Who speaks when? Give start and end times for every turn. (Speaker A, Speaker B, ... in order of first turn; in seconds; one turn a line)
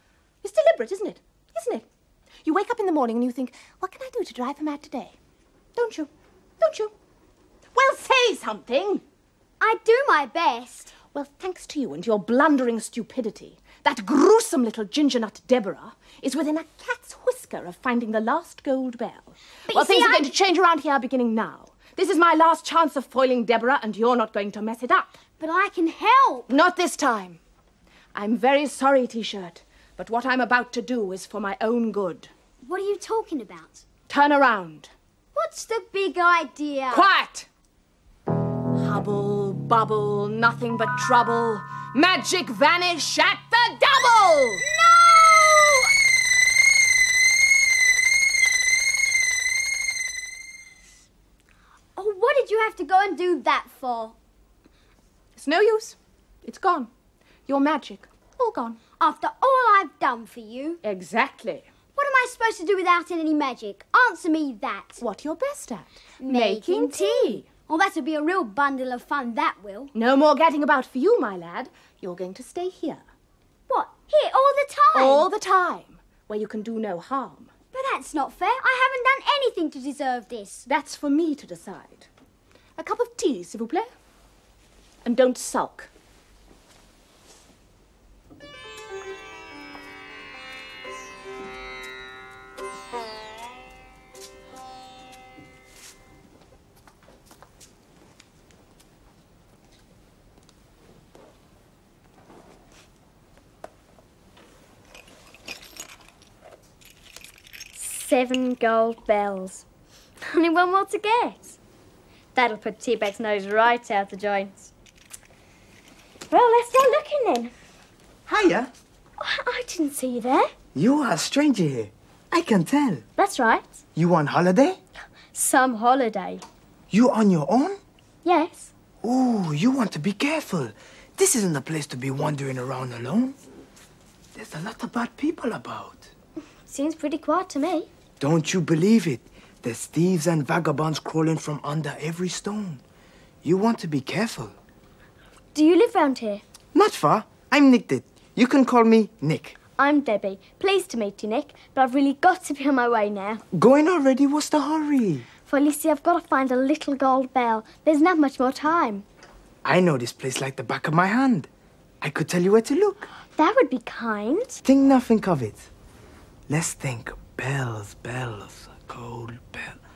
Speaker A: 0.4-1.8
Speaker A: 2.4-5.1
Speaker A: 5.8-6.9
Speaker A: 7.7-9.0
Speaker B: 9.6-10.9
Speaker A: 11.1-25.2
Speaker B: 19.7-20.3
Speaker B: 25.4-26.5
Speaker A: 26.5-27.4
Speaker A: 28.1-32.3
Speaker B: 32.6-33.8
Speaker A: 34.1-34.9
Speaker B: 35.3-37.1
Speaker A: 36.9-37.5
Speaker A: 38.8-44.6
Speaker B: 44.6-45.9
Speaker B: 52.0-54.1
Speaker A: 55.4-56.9
Speaker A: 57.5-58.8
Speaker B: 59.0-60.8
Speaker A: 60.8-61.6
Speaker B: 62.0-65.0
Speaker A: 65.0-67.5
Speaker B: 66.2-69.9
Speaker A: 69.9-73.0
Speaker B: 73.7-75.3
Speaker A: 74.9-77.5
Speaker B: 77.7-80.7
Speaker A: 80.7-82.1
Speaker A: 82.8-83.9
Speaker A: 85.0-85.9
Speaker C: 107.7-109.7
Speaker C: 110.2-111.6
Speaker C: 112.3-114.7
Speaker C: 116.3-117.5
Speaker D: 118.3-118.7
Speaker C: 119.2-120.5
Speaker D: 120.7-123.0
Speaker C: 123.2-123.7
Speaker D: 124.0-124.8
Speaker C: 125.3-126.4
Speaker D: 126.9-127.8
Speaker C: 128.2-128.7
Speaker D: 129.0-133.3
Speaker D: 134.3-136.1
Speaker C: 136.7-137.9
Speaker D: 138.2-142.8
Speaker D: 143.4-144.5
Speaker C: 145.5-146.4
Speaker D: 146.7-149.6
Speaker C: 149.8-153.4
Speaker D: 153.5-155.2
Speaker C: 155.4-159.1
Speaker D: 159.6-161.5
Speaker D: 162.0-163.1
Speaker C: 163.3-164.6
Speaker D: 164.6-165.7
Speaker D: 166.5-169.8